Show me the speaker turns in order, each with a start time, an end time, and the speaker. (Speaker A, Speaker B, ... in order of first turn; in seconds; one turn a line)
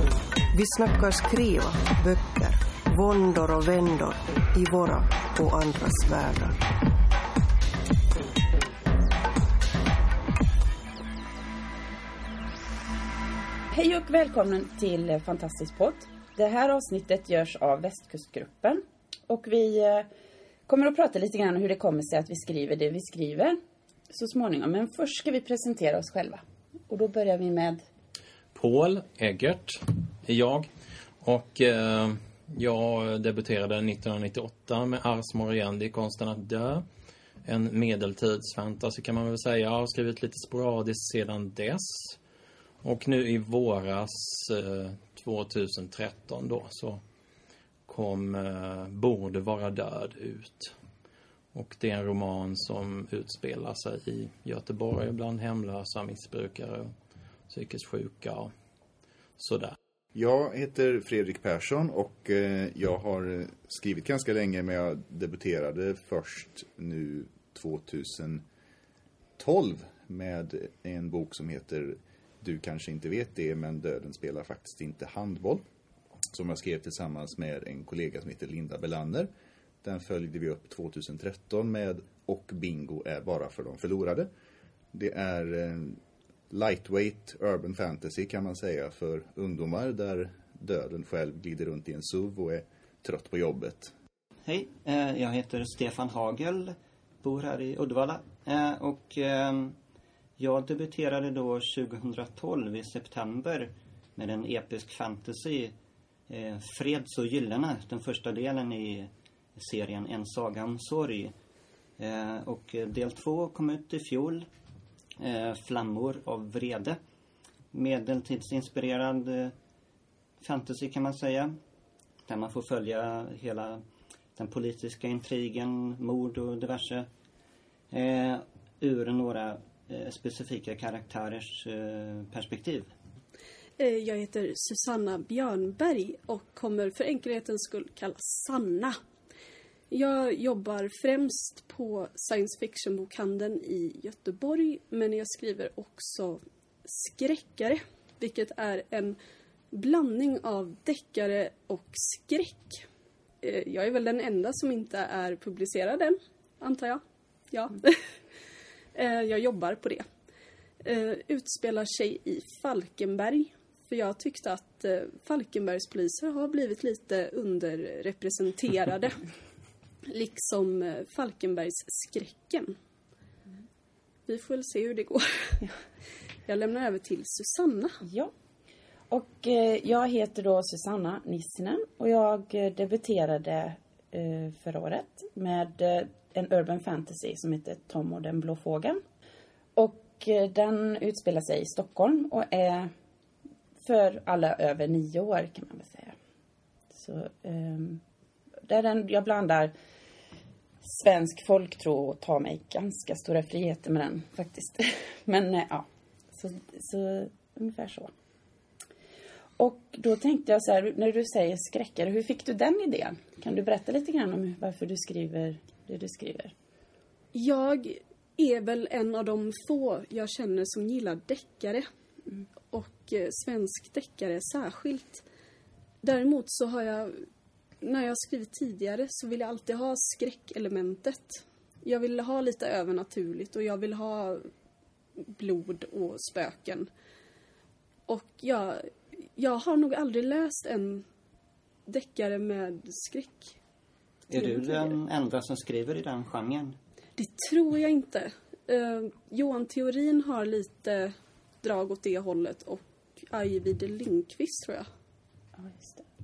Speaker A: 0.5-6.6
Speaker B: 13.7-20.1
Speaker B: 20.7-23.6
Speaker B: 24.1-27.8
Speaker C: 28.5-30.7
Speaker C: 31.2-36.9
Speaker C: 37.5-42.2
Speaker C: 42.8-47.0
Speaker C: 47.9-50.7
Speaker C: 51.5-56.9
Speaker C: 57.5-58.5
Speaker C: 59.4-59.8
Speaker D: 60.1-68.4
Speaker D: 69.4-75.6
Speaker D: 76.3-79.3
Speaker D: 79.8-84.3
Speaker D: 84.9-86.0
Speaker D: 86.5-93.9
Speaker E: 94.5-99.8
Speaker E: 100.4-105.7
Speaker E: 106.3-111.3
Speaker E: 112.0-114.5
Speaker E: 115.2-117.0
Speaker E: 117.7-119.5
Speaker E: 120.4-121.5
Speaker E: 122.3-123.8
Speaker E: 124.4-127.1
Speaker E: 127.9-132.9
Speaker F: 133.8-139.0
Speaker F: 139.9-149.2
Speaker F: 149.7-152.8
Speaker F: 153.4-157.0
Speaker F: 157.5-158.0
Speaker F: 158.9-160.1
Speaker F: 160.8-169.2
Speaker F: 170.1-172.7
Speaker F: 174.3-175.6
Speaker F: 176.5-177.9
Speaker B: 178.1-178.3
Speaker B: 179.1-189.0
Speaker B: 189.8-192.9
Speaker B: 193.8-196.2
Speaker B: 196.9-198.0
Speaker B: 198.7-199.7
Speaker B: 200.8-208.1
Speaker B: 209.6-216.5
Speaker F: 217.3-221.8
Speaker F: 222.7-225.3
Speaker F: 226.0-227.2
Speaker F: 227.8-234.5
Speaker F: 235.2-236.9
Speaker F: 238.1-241.0
Speaker F: 241.9-243.6
Speaker E: 244.3-246.8
Speaker F: 244.4-245.0
Speaker F: 247.2-254.9
Speaker B: 255.6-256.1